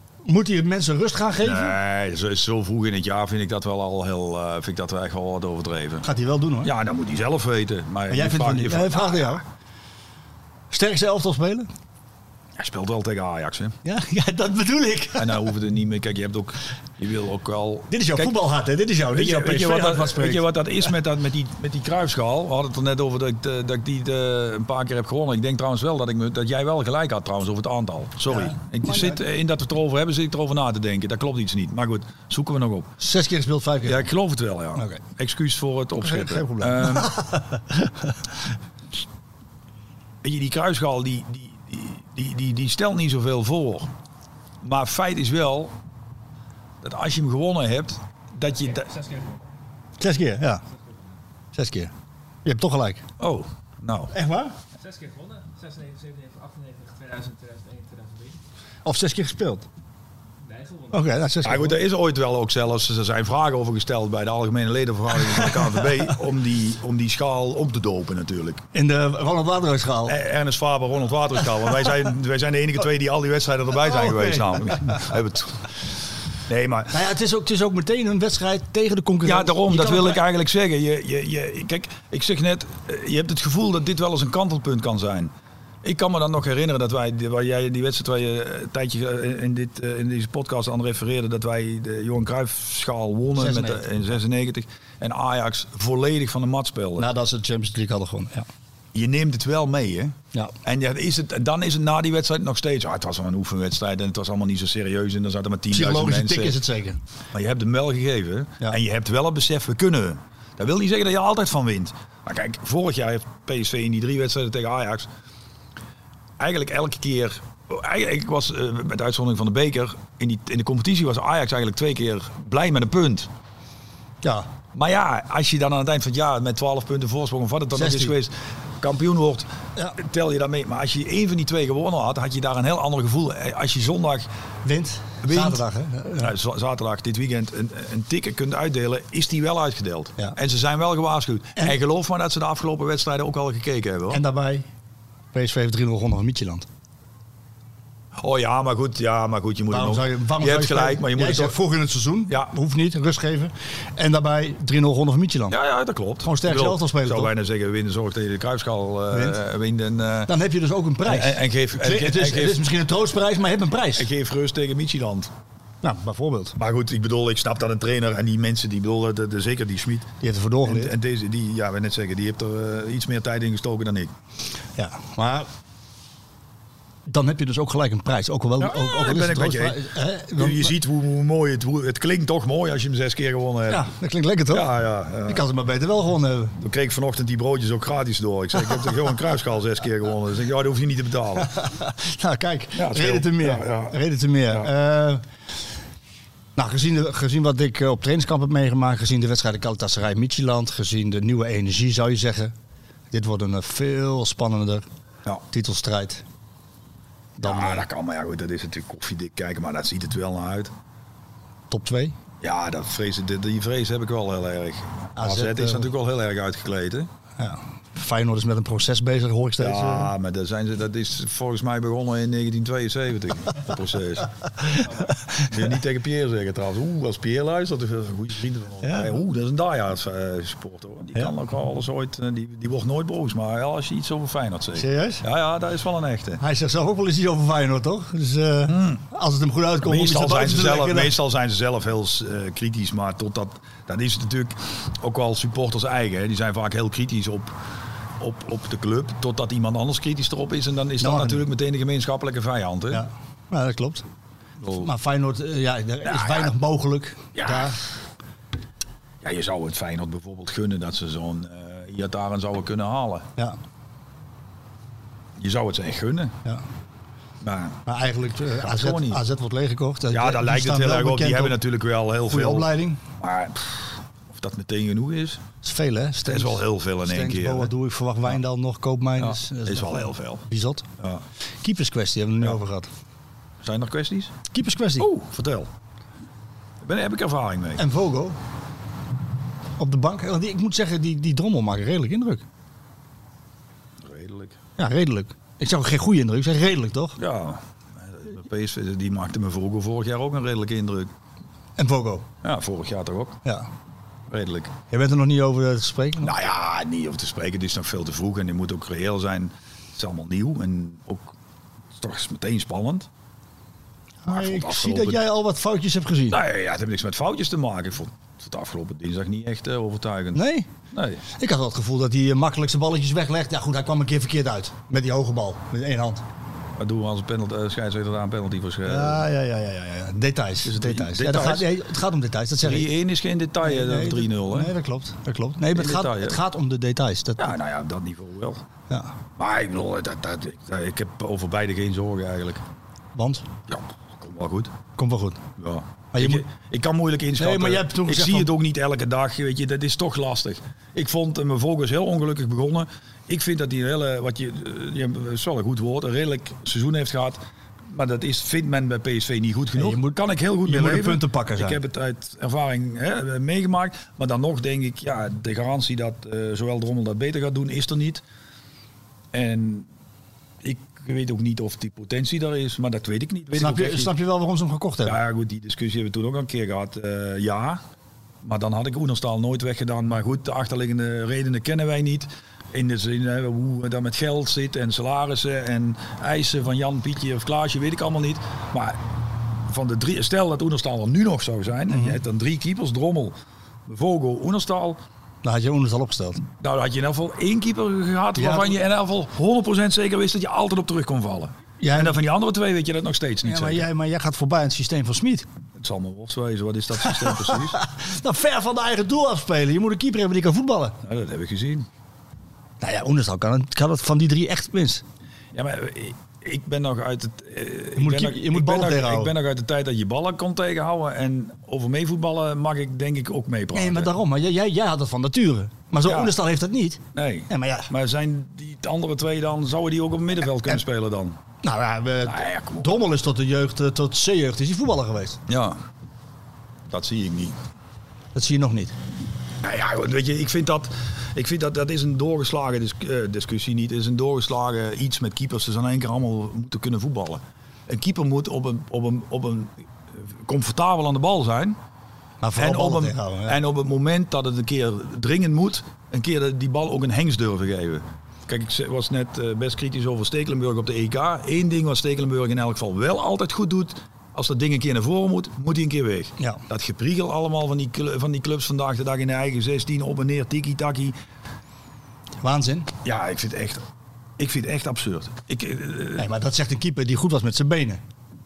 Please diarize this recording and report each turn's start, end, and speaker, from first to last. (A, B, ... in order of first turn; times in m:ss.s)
0:00.2-0:01.7 A
0:01.4-0:06.1 B
0:06.0-0:06.7 A
0:06.6-0:09.4 B
0:08.1-0:09.4 A
0:10.7-0:11.7 A
0:12.6-0:13.8 B
0:13.8-0:15.5 A
0:15.2-0:18.4 B
0:17.9-0:20.5 A
0:19.1-0:32.9 B
0:28.3-0:29.2 A
0:33.0-0:34.1 A
0:33.8-0:37.1 B
0:34.8-0:35.0 A
0:36.0-0:38.1 A
0:40.2-0:43.9 B
0:44.6-0:45.7 B
0:46.8-0:48.9 B
0:48.6-0:49.5 C
0:50.0-0:50.6 A
0:50.7-0:51.2 C
0:51.5-0:51.9 A
0:52.4-0:53.0 A
0:53.2-0:54.1 B
0:54.1-0:54.5 A
0:54.8-0:58.4 C
0:58.8-0:59.6 A
1:00.4-1:01.1 C
1:00.9-1:01.8 A
1:01.4-1:08.6 B
1:08.7-1:10.2 A
1:10.0-1:15.7 B
1:13.8-1:15.0 A
1:16.5-1:17.0 B
1:16.9-1:20.2 A
1:19.2-1:37.1 B
1:33.3-1:33.9 A
1:37.0-1:38.4 A
1:38.9-1:46.6 B
1:45.7-1:47.0 A
1:47.3-1:55.1 B
1:56.4-2:03.3 B
2:04.7-2:14.3 B
2:07.7-2:08.1 A
2:14.6-2:16.3 A
2:15.2-2:15.6 B
2:16.1-2:24.2 B
2:24.1-2:24.6 A
2:25.3-2:26.6 A
2:28.2-2:31.6 B
2:29.7-2:35.6 A
2:35.5-2:40.3 B
2:36.2-2:37.3 A
2:39.1-2:39.4 A
2:40.3-2:44.1 A
2:41.0-2:42.6 B
2:43.9-2:45.3 B
2:45.8-2:46.6 A
2:46.6-2:50.1 B
2:50.2-2:50.9 A
2:50.6-2:54.1 B
2:54.8-2:55.5 A
2:57.1-3:00.7 A
2:58.6-3:03.9 B
3:03.7-3:04.7 A
3:04.5-3:05.4 B
3:05.3-3:06.5 A
3:06.6-3:11.5 B
3:11.4-3:15.2 A
3:12.7-3:14.0 B
3:16.6-3:22.5 A
3:23.1-3:24.8 A
3:25.5-3:26.2 A
3:27.4-3:27.8 A
3:27.4-3:30.7 B
3:31.7-3:32.1 A
3:32.4-3:37.1 B
3:35.2-3:35.9 A
3:37.4-3:40.1 A
3:39.6-3:56.4 B
3:44.6-3:45.4 A
3:48.8-3:49.1 A
3:54.8-3:55.2 A
3:56.4-4:01.1 A
3:58.6-3:59.0 B
3:59.8-4:07.6 B
4:08.2-4:13.0 B
4:11.0-4:11.5 A
4:12.9-4:14.0 A
4:14.6-4:14.9 B
4:14.7-4:17.8 A
4:16.0-4:16.5 B
4:17.3-4:17.8 B
4:19.2-4:23.3 B
4:25.4-4:26.3 B
4:27.4-4:27.8 B
4:27.8-4:31.6 A
4:28.6-4:29.2 B
4:30.1-4:35.4 B
4:32.2-4:33.0 A
4:35.6-4:40.8 A
4:36.2-4:37.7 B
4:39.2-4:40.4 B
4:41.6-4:42.9 A
4:43.6-4:44.4 B
4:44.5-4:45.1 A
4:45.0-4:45.7 B
4:46.8-4:47.8 B
4:47.8-4:48.4 A
4:49.8-4:52.4 A
4:54.0-4:54.6 B
4:54.8-4:57.2 A
4:57.2-5:01.1 B
5:01.8-5:02.2 A
5:02.4-5:03.4 B
5:04.3-5:04.7 B
5:04.9-5:06.3 A
5:06.2-5:11.3 B
5:12.0-5:13.1 B
5:14.2-5:16.4 A
5:14.3-5:15.2 B
5:16.3-5:21.2 B
5:20.3-5:20.7 A
5:21.3-5:26.2 A
5:26.8-5:29.3 B
5:28.8-5:32.9 A
5:30.6-5:31.7 B
5:32.6-5:34.7 B
5:33.6-5:37.5 A
5:35.7-5:36.4 B
5:37.4-5:38.6 B
5:39.4-5:42.6 B
5:43.1-5:43.4 A
5:43.7-5:44.7 B
5:45.0-5:45.4 A
5:45.6-6:08.2 B
5:46.1-5:46.4 A
5:47.4-5:48.5 A
5:59.8-6:01.8 A
6:09.3-6:09.9 B
6:10.6-6:14.1 B
6:13.6-6:15.2 A
6:15.0-6:17.8 B
6:18.4-6:29.0 B
6:29.7-6:33.3 B
6:31.9-6:32.2 A
6:33.8-6:35.0 B
6:35.4-6:36.4 A
6:36.6-6:43.8 B
6:38.4-6:38.7 A
6:41.8-6:42.2 A
6:43.4-6:45.5 A
6:45.8-6:47.8 B
6:47.0-6:51.0 A
6:51.0-6:51.9 B
6:52.8-6:55.0 A
6:55.5-7:04.1 B
6:58.0-6:59.3 A
7:03.7-7:07.9 A
7:06.0-7:06.4 B
7:07.1-7:11.4 B
7:11.6-7:15.4 A
7:12.2-7:13.0 B
7:15.5-7:15.8 B
7:16.9-7:17.6 B
7:18.3-7:18.9 A
7:19.6-7:31.8 B
7:32.4-7:33.6 A
7:32.6-7:51.2 B
7:52.4-7:52.9 A
7:53.0-7:53.8 B
7:54.4-7:56.3 B
7:56.2-7:58.0 A